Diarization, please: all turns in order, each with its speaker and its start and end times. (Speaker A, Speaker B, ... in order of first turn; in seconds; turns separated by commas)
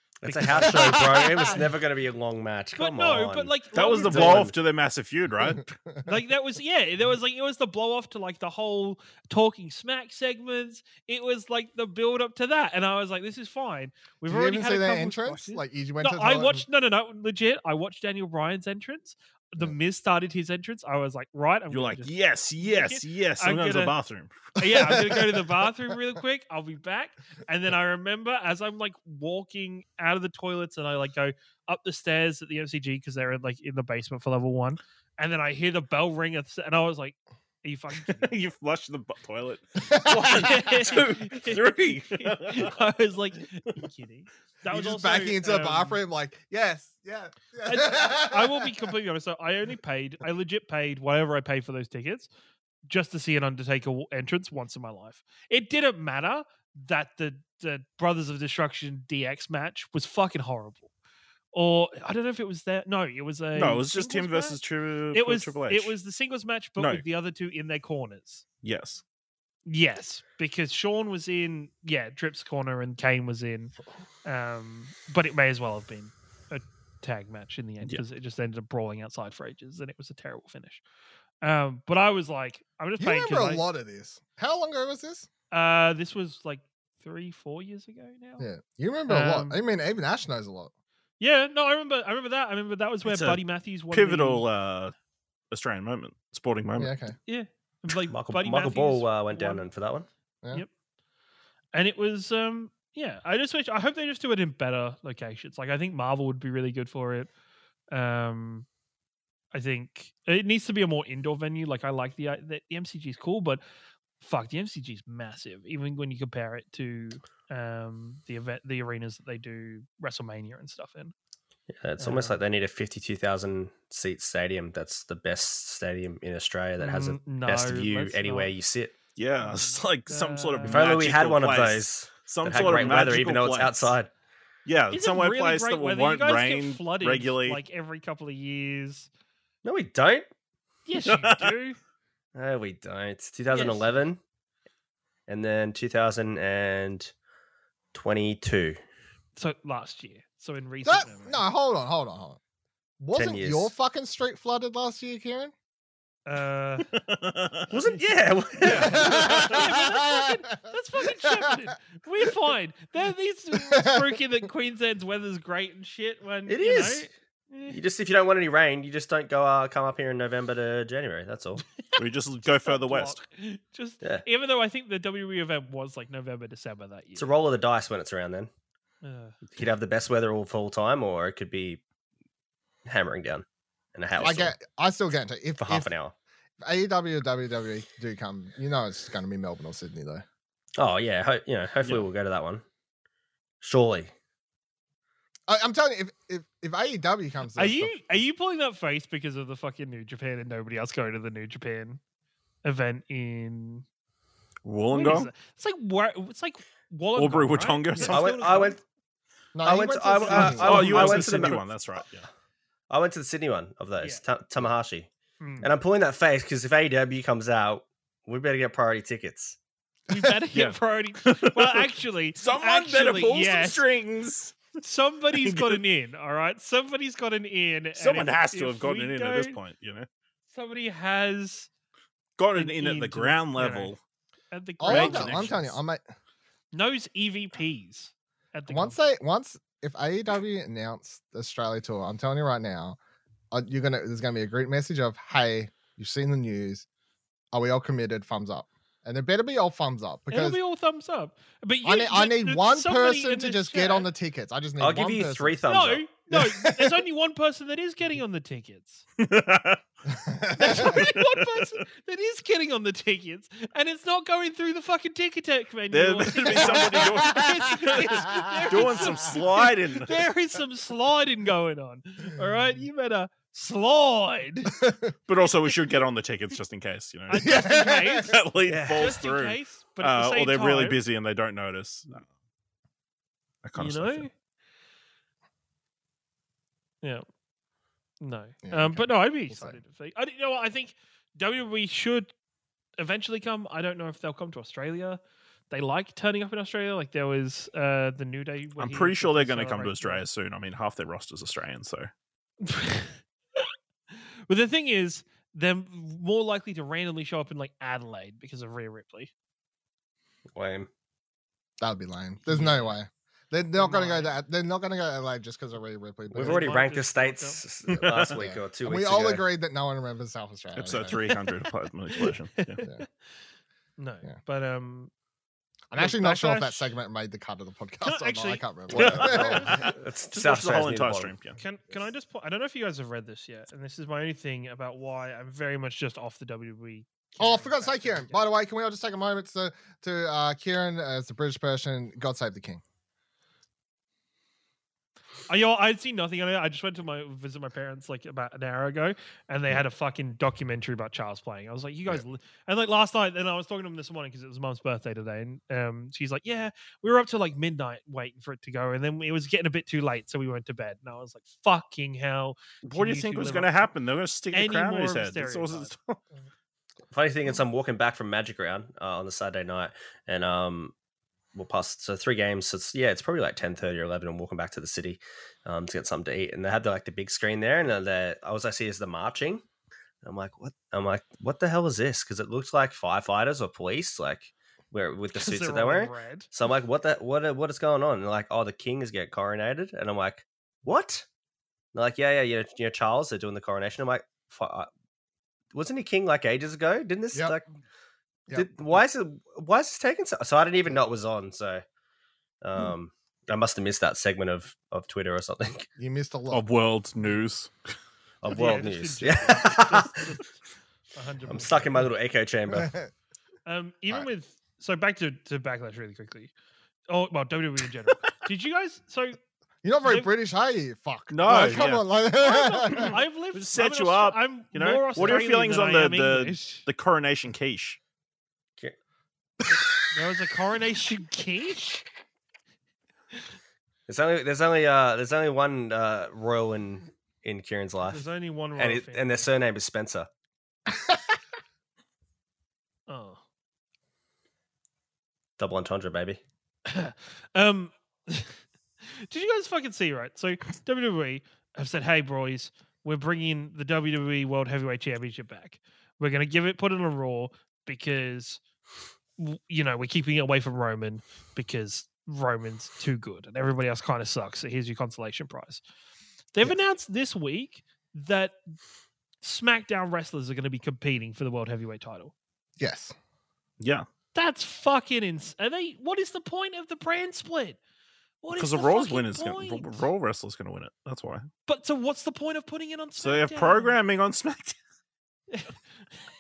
Speaker A: 0.2-4.5, Speaker B: 0.3-1.1, Speaker C: 0.5-1.6, Speaker B: 2.8-4.5, Speaker D: 3.7-5.7, Speaker C: 5.4-6.0, Speaker B: 6.0-23.9, Speaker C: 14.3-16.6, Speaker D: 21.7-24.5, Speaker B: 24.6-38.3, Speaker C: 24.6-25.9, Speaker D: 38.1-42.8, Speaker C: 39.8-40.6, Speaker B: 40.1-46.0, Speaker C: 44.7-48.9, Speaker B: 47.6-52.3, Speaker B: 52.9-60.9, Speaker B: 61.5-64.6, Speaker D: 63.5-66.0, Speaker B: 65.1-68.4, Speaker D: 66.8-67.0, Speaker D: 68.6-69.0, Speaker B: 69.7-73.7, Speaker B: 74.2-80.8, Speaker B: 81.4-83.7, Speaker C: 83.0-85.3, Speaker B: 85.5-88.5, Speaker C: 88.4-90.7, Speaker B: 89.1-89.6, Speaker B: 91.2-94.5, Speaker D: 93.0-94.9, Speaker D: 95.5-96.9, Speaker C: 96.8-97.2, Speaker B: 97.3-99.7, Speaker A: 98.1-100.1, Speaker B: 101.7-107.3, Speaker B: 107.9-108.7, Speaker B: 109.5-113.6, Speaker B: 114.2-121.1, Speaker A: 121.7-128.9, Speaker B: 122.0-122.4, Speaker B: 126.8-128.5, Speaker D: 129.2-133.9, Speaker B: 129.4-130.9, Speaker A: 130.7-134.1, Speaker B: 132.6-132.9, Speaker D: 134.7-137.6, Speaker B: 134.9-139.1, Speaker A: 139.6-140.3, Speaker B: 140.9-141.8, Speaker D: 141.1-141.5, Speaker A: 142.3-144.2, Speaker B: 143.5-143.9, Speaker A: 145.3-147.1, Speaker A: 147.9-148.8, Speaker B: 149.4-151.4, Speaker C: 150.8-152.4, Speaker C: 153.0-155.5, Speaker A: 153.2-153.7, Speaker B: 156.3-156.9, Speaker D: 156.9-157.7, Speaker A: 157.7-159.5, Speaker B: 158.6-167.8, Speaker C: 158.7-160.4, Speaker C: 161.2-161.6, Speaker C: 163.6-164.2, Speaker A: 166.5-167.1, Speaker A: 167.7-171.7, Speaker D: 172.0-173.2, Speaker B: 172.7-177.3, Speaker A: 177.2-178.5, Speaker B: 179.0-179.4, Speaker A: 179.6-181.8, Speaker A: 182.9-184.6, Speaker C: 184.2-185.9, Speaker A: 185.6-186.1, Speaker C: 186.6-190.2, Speaker A: 190.8-192.7, Speaker A: 193.6-194.1, Speaker C: 195.5-198.0, Speaker B: 197.6-202.0, Speaker B: 202.6-203.8, Speaker D: 204.7-205.3, Speaker B: 204.9-208.8, Speaker D: 207.2-208.3, Speaker A: 208.0-208.8, Speaker C: 209.5-211.2, Speaker A: 209.6-211.7, Speaker D: 210.3-212.3, Speaker B: 210.5-210.8, Speaker A: 212.9-215.1, Speaker B: 215.4-215.7, Speaker A: 215.6-219.6, Speaker B: 220.1-223.8, Speaker D: 220.5-224.6, Speaker B: 224.8-229.6, Speaker D: 225.4-225.8, Speaker D: 228.0-230.1, Speaker B: 230.5-231.7, Speaker D: 232.4-234.0, Speaker B: 232.6-233.9, Speaker B: 234.5-235.8, Speaker C: 234.8-236.0, Speaker D: 234.9-235.7, Speaker B: 236.7-239.0, Speaker C: 238.7-243.0, Speaker C: 243.5-246.9, Speaker C: 247.5-250.6, Speaker B: 250.3-254.1, Speaker C: 251.8-255.6, Speaker A: 254.8-256.0, Speaker B: 255.7-259.1, Speaker C: 256.3-257.0, Speaker D: 259.2-259.8, Speaker C: 260.1-261.0, Speaker B: 260.6-274.8, Speaker D: 260.7-261.7, Speaker D: 265.9-270.2, Speaker C: 266.6-267.4, Speaker C: 268.1-269.0, Speaker C: 274.8-275.1, Speaker D: 275.3-277.6, Speaker B: 277.3-278.4, Speaker C: 277.4-278.4, Speaker D: 278.2-282.3, Speaker A: 278.7-279.1, Speaker B: 279.0-281.0, Speaker D: 283.6-284.3, Speaker B: 283.8-284.3, Speaker B: 288.2-292.3, Speaker C: 288.6-289.8, Speaker B: 293.0-300.3, Speaker D: 298.8-302.1, Speaker B: 302.6-309.3, Speaker A: 310.5-310.9, Speaker C: 311.8-316.8, Speaker B: 312.6-312.9, Speaker B: 313.8-314.3, Speaker A: 316.3-319.4, Speaker B: 316.4-317.6, Speaker D: 317.9-318.4, Speaker C: 318.3-321.2, Speaker D: 320.8-322.8, Speaker B: 322.1-323.1, Speaker B: 324.0-325.1, Speaker C: 325.9-329.9, Speaker B: 326.0-326.9, Speaker B: 328.0-329.9, Speaker A: 328.9-331.3, Speaker D: 329.0-331.6, Speaker B: 331.6-338.5, Speaker C: 337.4-342.8, Speaker B: 345.5-363.8, Speaker D: 362.8-366.2, Speaker B: 364.5-365.9, Speaker A: 367.1-370.9, Speaker A: 371.6-379.6, Speaker A: 380.2-391.2, Speaker B: 385.4-386.5, Speaker A: 391.9-394.9, Speaker A: 395.7-397.6, Speaker A: 398.5-401.8, Speaker A: 402.6-405.9, Speaker C: 406.0-406.6, Speaker D: 406.5-407.7, Speaker A: 408.4-410.2, Speaker B: 408.5-410.6, Speaker B: 411.1-412.1, Speaker A: 411.5-412.9, Speaker C: 412.7-413.1, Speaker B: 413.7-416.5, Speaker B: 417.1-419.4, Speaker C: 419.8-423.1, Speaker B: 420.0-420.3, Speaker D: 421.3-422.1, Speaker B: 421.5-426.9, Speaker D: 423.0-428.0, Speaker B: 430.1-432.1, Speaker A: 434.1-438.2, Speaker B: 438.1-439.4, Speaker A: 438.8-440.3, Speaker B: 443.1-443.4, Speaker A: 445.6-446.4, Speaker B: 446.9-458.6, Speaker B: 459.4-465.8, Speaker B: 466.5-468.6, Speaker B: 469.4-472.3, Speaker C: 472.8-473.1, Speaker D: 473.8-474.1, Speaker B: 474.3-477.8, Speaker B: 478.4-480.1, Speaker D: 478.6-481.5, Speaker B: 481.7-484.0, Speaker D: 483.2-484.8